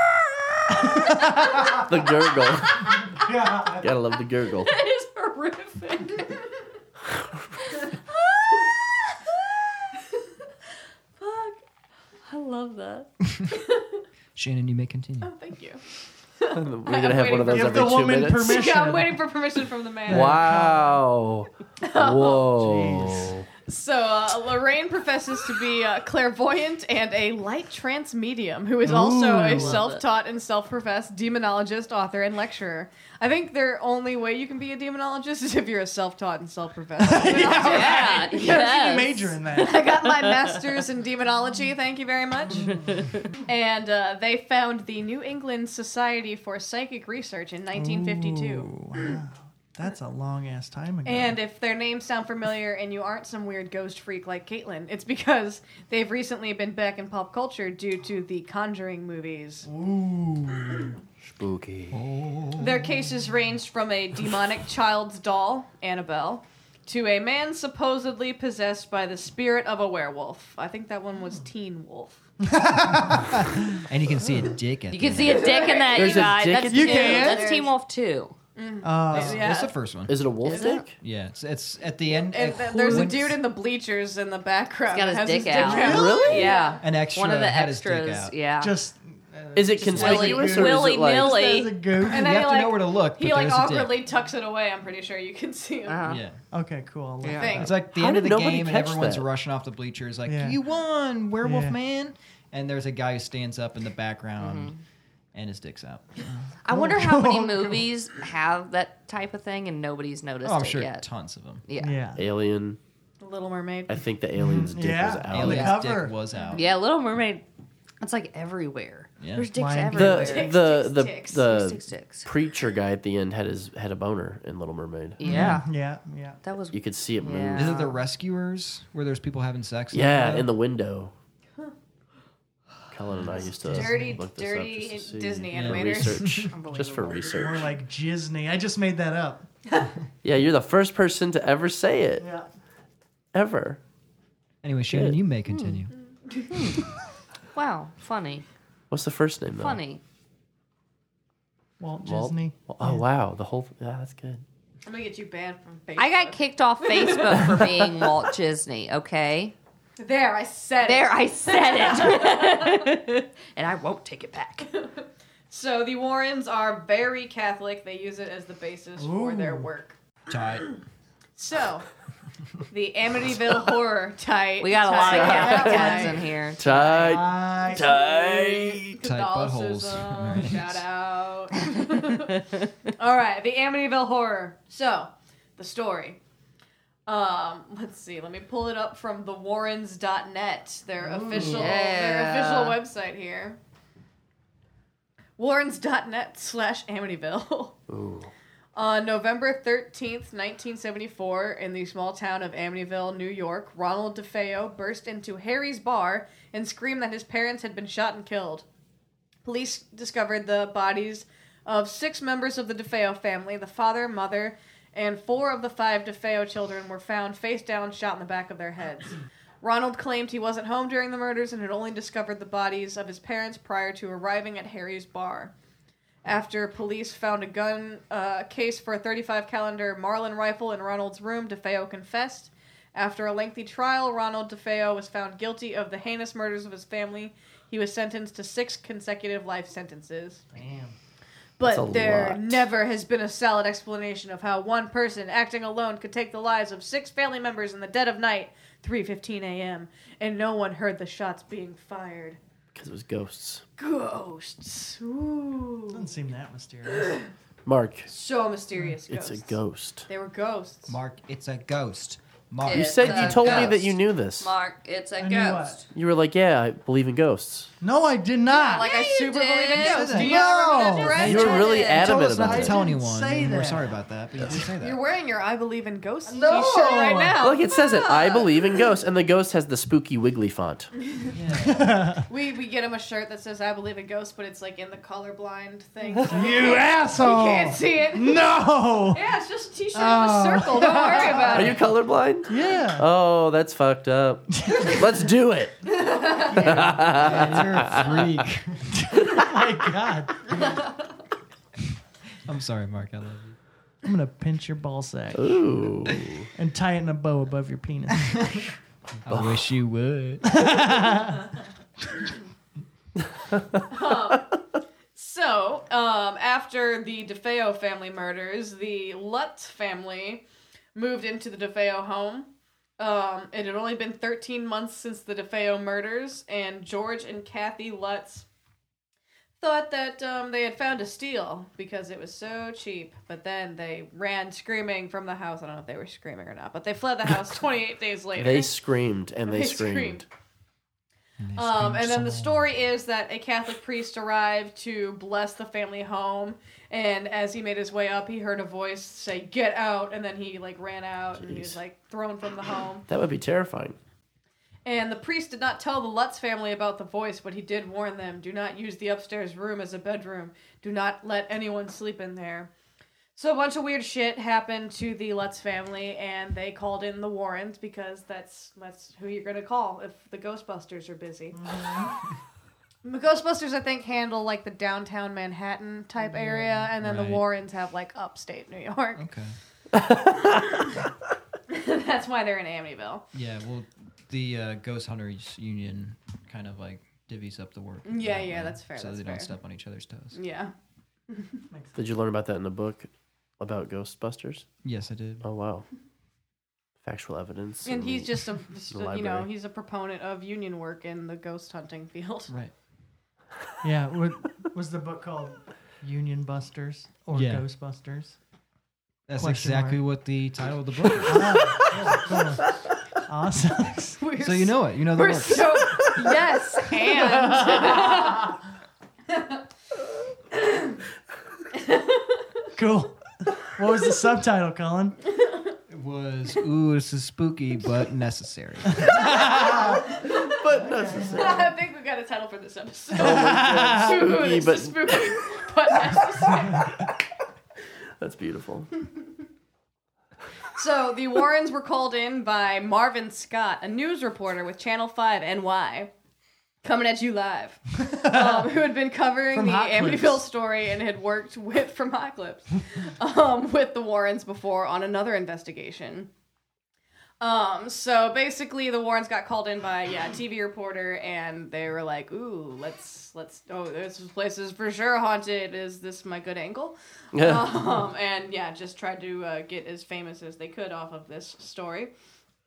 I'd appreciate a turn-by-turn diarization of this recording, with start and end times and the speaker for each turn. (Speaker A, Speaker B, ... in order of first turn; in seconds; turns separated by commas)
Speaker A: 0.8-1.8, Speaker B: 1.7-2.9, Speaker C: 2.7-3.0, Speaker A: 3.0-3.9, Speaker B: 3.8-4.7, Speaker C: 4.6-6.3, Speaker C: 7.8-9.2, Speaker C: 11.2-11.6, Speaker C: 12.3-13.1, Speaker D: 14.3-15.3, Speaker E: 15.2-15.8, Speaker E: 16.4-20.6, Speaker B: 16.5-18.6, Speaker A: 17.5-19.3, Speaker A: 20.1-21.0, Speaker B: 20.1-23.4, Speaker E: 21.8-22.5, Speaker A: 22.5-23.4, Speaker E: 23.7-38.4, Speaker A: 28.8-29.8, Speaker C: 29.5-30.1, Speaker A: 37.0-40.0, Speaker C: 37.3-39.4, Speaker E: 39.5-42.8, Speaker C: 40.0-40.6, Speaker A: 42.5-43.0, Speaker C: 42.8-43.3, Speaker E: 43.5-48.7, Speaker A: 47.7-51.4, Speaker E: 51.0-59.7, Speaker A: 59.6-61.0, Speaker B: 61.2-62.0, Speaker D: 61.9-62.8, Speaker E: 62.6-72.1, Speaker A: 72.4-73.8, Speaker D: 73.1-75.5, Speaker C: 74.9-78.3, Speaker E: 75.2-77.7, Speaker B: 75.9-77.3, Speaker A: 76.7-77.6, Speaker E: 78.5-79.7, Speaker A: 78.8-79.5, Speaker D: 79.1-80.2, Speaker B: 80.1-81.0, Speaker C: 80.4-80.8, Speaker D: 81.0-83.4, Speaker E: 82.1-86.8, Speaker C: 84.9-88.7, Speaker A: 85.6-86.5, Speaker B: 85.8-86.6, Speaker D: 86.8-88.3, Speaker A: 88.6-92.3, Speaker B: 89.5-91.5, Speaker C: 89.9-91.7, Speaker D: 92.0-94.0, Speaker E: 92.1-96.2, Speaker C: 95.8-96.2, Speaker D: 96.1-96.4, Speaker A: 96.5-97.7, Speaker C: 97.2-97.5, Speaker E: 97.3-97.7, Speaker D: 97.5-104.7, Speaker B: 97.9-99.3, Speaker A: 100.2-100.6, Speaker A: 101.4-101.8, Speaker C: 104.4-104.8, Speaker D: 105.3-106.5, Speaker C: 106.6-111.1, Speaker A: 106.7-107.9, Speaker D: 110.4-111.6, Speaker C: 111.7-112.0, Speaker A: 111.8-112.2, Speaker B: 112.2-112.8, Speaker E: 113.2-113.9, Speaker B: 113.9-115.8, Speaker A: 114.3-116.3, Speaker D: 115.3-116.6, Speaker C: 116.5-117.4, Speaker C: 118.0-120.5, Speaker D: 119.2-119.5, Speaker A: 119.5-120.3, Speaker B: 119.9-125.2, Speaker E: 120.2-121.5, Speaker C: 121.4-122.3, Speaker C: 125.2-125.7, Speaker A: 125.2-126.4, Speaker D: 125.2-125.6, Speaker C: 126.4-127.9, Speaker B: 126.7-127.8, Speaker D: 127.5-130.5, Speaker B: 129.9-131.1, Speaker B: 132.9-137.7, Speaker E: 133.7-136.4, Speaker D: 135.5-136.5, Speaker C: 136.5-137.3, Speaker A: 137.3-139.5, Speaker B: 140.2-142.2, Speaker A: 142.2-142.5, Speaker B: 143.3-143.8, Speaker D: 144.6-145.9, Speaker C: 147.5-148.4, Speaker B: 148.9-149.8, Speaker C: 149.5-150.0, Speaker A: 151.8-153.0, Speaker B: 152.0-154.4, Speaker E: 154.8-157.7, Speaker C: 156.0-159.5, Speaker E: 160.0-162.9, Speaker C: 160.8-164.7, Speaker E: 164.7-169.9, Speaker A: 169.0-169.7, Speaker D: 170.3-170.7, Speaker E: 171.4-171.8, Speaker E: 172.7-176.2, Speaker C: 174.6-177.2, Speaker B: 175.0-179.0, Speaker A: 176.7-178.8, Speaker E: 178.9-186.2, Speaker D: 179.0-180.8, Speaker E: 187.1-193.6, Speaker A: 191.0-191.7, Speaker C: 191.3-192.8, Speaker E: 195.4-197.7, Speaker B: 197.9-198.3, Speaker E: 198.7-208.6, Speaker E: 209.4-225.5, Speaker E: 226.2-240.4, Speaker A: 240.5-240.9, Speaker E: 241.6-252.4, Speaker B: 241.6-242.7, Speaker B: 252.7-253.6, Speaker E: 253.8-256.1, Speaker A: 255.9-257.2, Speaker E: 257.0-257.2, Speaker B: 257.6-258.1, Speaker E: 258.1-259.6, Speaker B: 259.1-260.1, Speaker E: 260.1-260.9, Speaker D: 260.9-263.8, Speaker C: 262.6-265.9, Speaker B: 262.7-264.5, Speaker A: 265.2-265.8, Speaker B: 265.9-267.7, Speaker A: 267.8-268.9, Speaker E: 268.6-272.0, Speaker C: 268.6-271.1, Speaker D: 269.8-270.5, Speaker A: 270.1-274.6, Speaker D: 271.1-275.0, Speaker B: 271.2-272.8, Speaker E: 274.8-278.8, Speaker A: 276.2-277.4, Speaker B: 277.4-280.9, Speaker E: 281.0-281.3, Speaker D: 281.4-281.9, Speaker A: 281.5-282.2, Speaker E: 282.3-288.5, Speaker A: 286.0-289.3, Speaker E: 289.1-291.8, Speaker A: 289.9-291.8, Speaker B: 291.5-295.8, Speaker A: 292.5-293.1, Speaker A: 294.6-295.0, Speaker E: 296.0-296.5, Speaker A: 296.5-297.6, Speaker D: 296.6-298.8, Speaker B: 296.6-298.2, Speaker A: 299.0-300.6, Speaker D: 302.4-303.6, Speaker A: 304.0-305.6, Speaker B: 305.3-306.5, Speaker A: 306.6-308.7, Speaker D: 309.2-310.9, Speaker B: 309.3-309.6, Speaker A: 310.5-311.5, Speaker E: 313.9-314.5, Speaker E: 315.1-320.4, Speaker E: 320.9-322.5, Speaker E: 323.0-328.4, Speaker E: 329.6-338.7, Speaker B: 338.4-340.2, Speaker E: 339.4-340.2, Speaker D: 341.4-342.6, Speaker E: 341.5-353.0, Speaker B: 351.4-351.8, Speaker B: 353.1-354.0, Speaker E: 354.8-362.7, Speaker E: 363.4-371.6, Speaker A: 371.5-372.1, Speaker E: 373.0-379.2, Speaker A: 376.2-376.9, Speaker D: 377.0-377.4, Speaker D: 379.1-379.5, Speaker E: 381.7-383.2, Speaker D: 383.3-390.4, Speaker E: 388.1-389.5, Speaker E: 390.3-390.7, Speaker E: 391.3-391.6, Speaker A: 391.7-392.0, Speaker B: 391.9-394.7, Speaker D: 394.8-395.4, Speaker B: 395.4-395.9, Speaker B: 397.0-399.5, Speaker E: 397.8-402.5, Speaker A: 403.8-408.4, Speaker D: 407.3-407.7, Speaker D: 409.3-411.9, Speaker A: 409.4-410.0, Speaker A: 411.2-412.7, Speaker A: 413.2-414.2, Speaker E: 414.2-418.5, Speaker D: 414.4-416.0, Speaker A: 417.0-418.3, Speaker E: 419.3-419.6, Speaker E: 420.6-420.9, Speaker E: 421.7-422.7, Speaker A: 422.7-425.2, Speaker D: 425.9-429.4, Speaker A: 428.9-430.2, Speaker B: 430.3-431.7, Speaker A: 430.8-431.7, Speaker E: 431.3-436.9, Speaker A: 433.1-434.2, Speaker B: 433.2-435.6, Speaker B: 438.2-438.9, Speaker E: 440.7-446.1, Speaker E: 446.8-456.3, Speaker A: 448.1-448.8, Speaker A: 449.5-450.4, Speaker E: 457.4-472.1, Speaker B: 467.3-467.7